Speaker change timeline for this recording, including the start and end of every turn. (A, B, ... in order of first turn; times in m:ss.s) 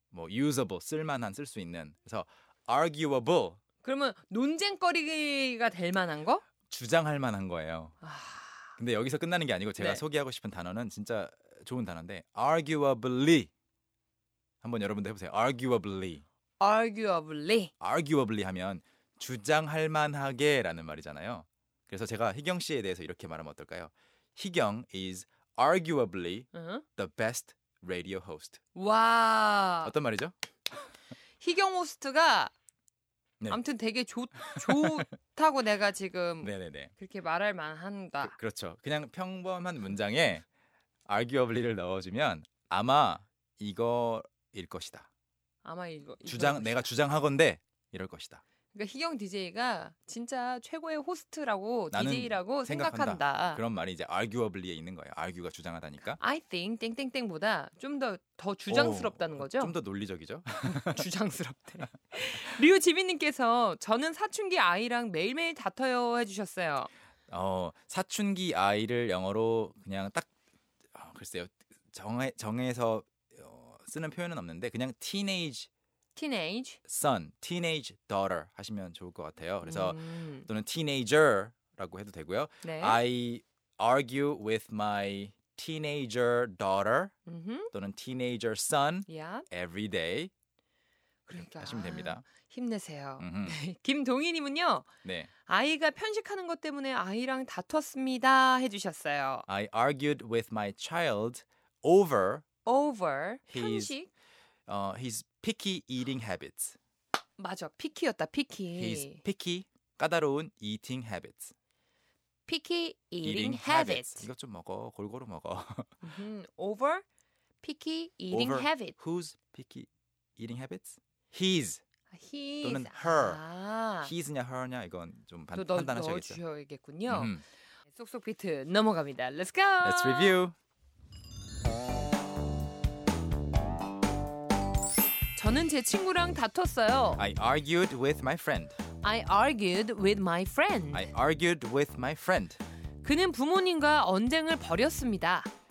0:00.1-0:03.6 A
0:03.8-0:06.4 B
0:06.7-0:08.0 A
0:08.0-0:08.7 B
0:08.8-0:13.5 A
0:14.6-0:16.2 A
0:16.6-0:17.7 B
0:17.8-0:28.6 A
0:26.5-0:26.8 B
0:28.8-0:29.9 B
0:29.8-0:30.3 A
0:31.4-0:32.5 B
0:33.5-0:38.3 B
0:34.5-0:35.1 A
0:36.4-0:36.9 A
0:38.2-0:40.5 A
0:41.1-0:45.1 A
0:45.6-0:46.9 B
0:46.3-0:48.4 A
0:48.7-0:53.6 B
0:51.9-0:56.2 A
0:56.2-0:59.8 B
0:58.7-1:01.1 A
1:00.7-1:06.9 B
1:07.3-1:10.3 A
1:10.9-1:15.7 A
1:16.2-1:16.8 B
1:16.9-1:27.1 A
1:19.6-1:20.5 B
1:22.6-1:23.0 B
1:27.3-1:27.7 B
1:27.7-1:30.3 A
1:29.1-1:29.5 B
1:31.3-1:34.9 B
1:31.4-1:32.3 A
1:33.2-1:33.6 A
1:35.0-1:35.3 A
1:35.5-1:39.5 B
1:39.5-1:42.5 A
1:42.6-1:44.1 B
1:43.5-1:44.0 A
1:44.7-1:46.8 A
1:47.4-1:49.2 B
1:48.8-1:51.5 A
1:52.5-1:54.3 B
1:53.2-1:56.0 A
1:56.0-1:57.0 B
1:57.6-1:59.0 B
1:58.3-2:01.8 A
2:02.1-2:04.1 B
2:02.6-2:03.4 A
2:04.0-2:06.4 A
2:05.5-2:10.4 B
2:07.1-2:07.4 A
2:09.8-2:10.6 A
2:15.4-2:17.2 B
2:17.2-2:18.8 A
2:19.0-2:21.1 B
2:20.9-2:22.6 A
2:23.0-2:25.5 B